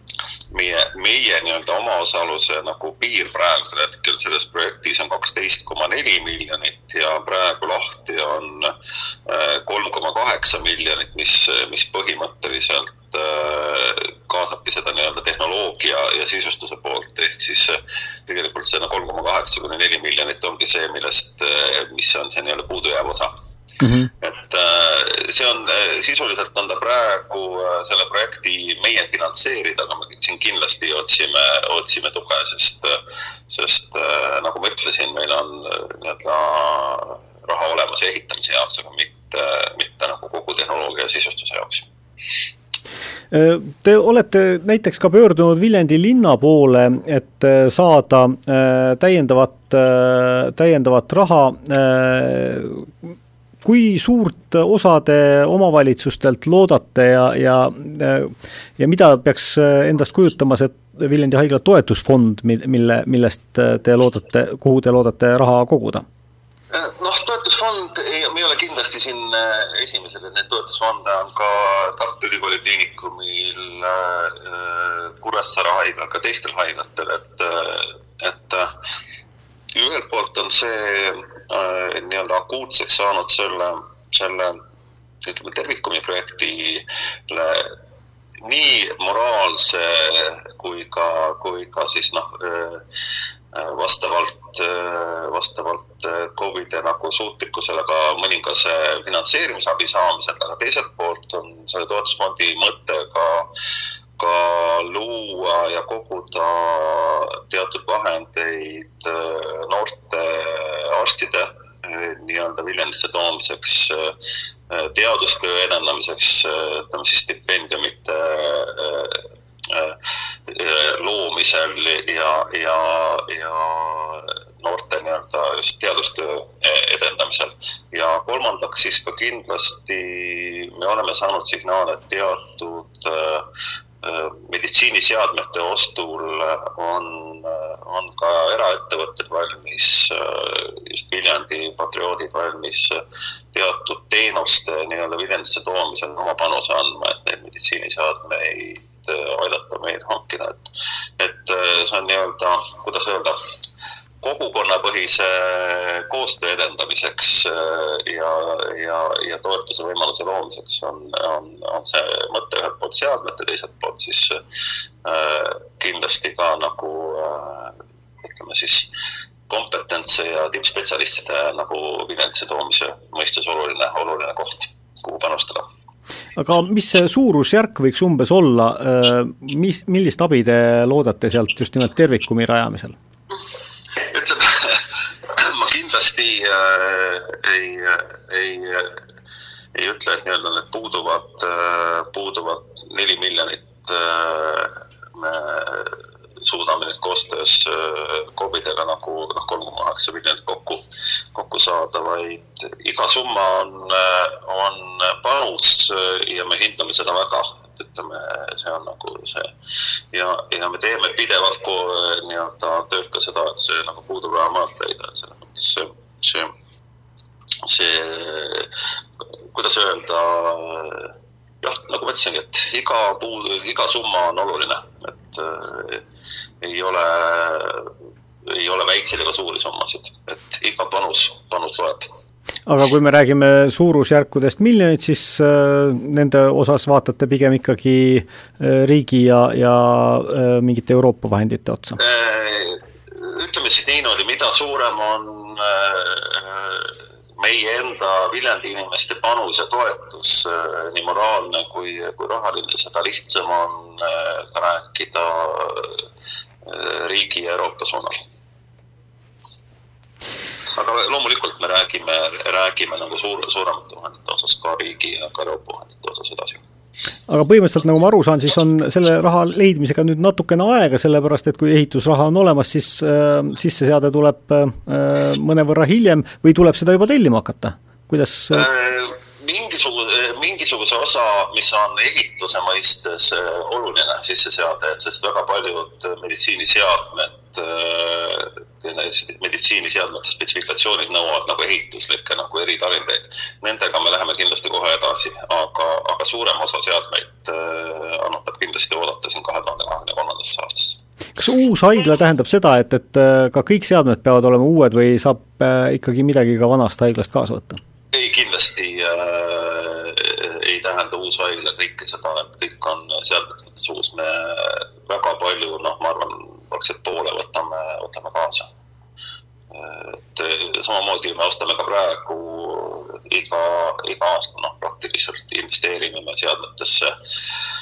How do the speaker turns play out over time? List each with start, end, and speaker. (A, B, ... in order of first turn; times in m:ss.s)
0:00.5-0:08.7 A
0:09.3-0:23.3 A
0:23.8-0:24.1 B
0:24.2-0:41.8 A
0:43.3-0:53.1 B
0:53.6-1:06.0 B
1:06.7-1:18.7 A
1:19.8-1:24.6 A
1:25.2-1:27.7 A
1:28.5-1:32.8 A
1:33.5-1:43.5 A
1:44.2-1:54.1 A
1:54.7-2:00.0 A
2:00.5-2:13.5 A
2:14.0-2:23.0 A
2:23.5-2:30.7 A
2:31.2-2:33.4 A
2:34.2-2:44.4 A
2:45.0-2:48.9 A
2:49.5-2:55.7 A
2:56.4-3:03.0 B
3:04.0-3:04.8 A
3:05.3-3:09.0 A
3:09.8-3:20.8 A
3:21.3-3:29.5 A
3:30.1-3:36.5 A
3:37.6-3:38.7 A
3:39.5-3:46.0 A
3:46.6-3:47.9 A
3:48.5-3:52.1 A
3:52.7-4:02.0 B
4:02.0-4:16.0 A
4:16.6-4:18.2 A
4:20.7-4:26.6 A
4:27.3-4:38.7 B
4:38.5-5:01.0 A
5:01.4-5:07.8 B
5:08.1-5:18.7 A
5:19.7-5:27.1 A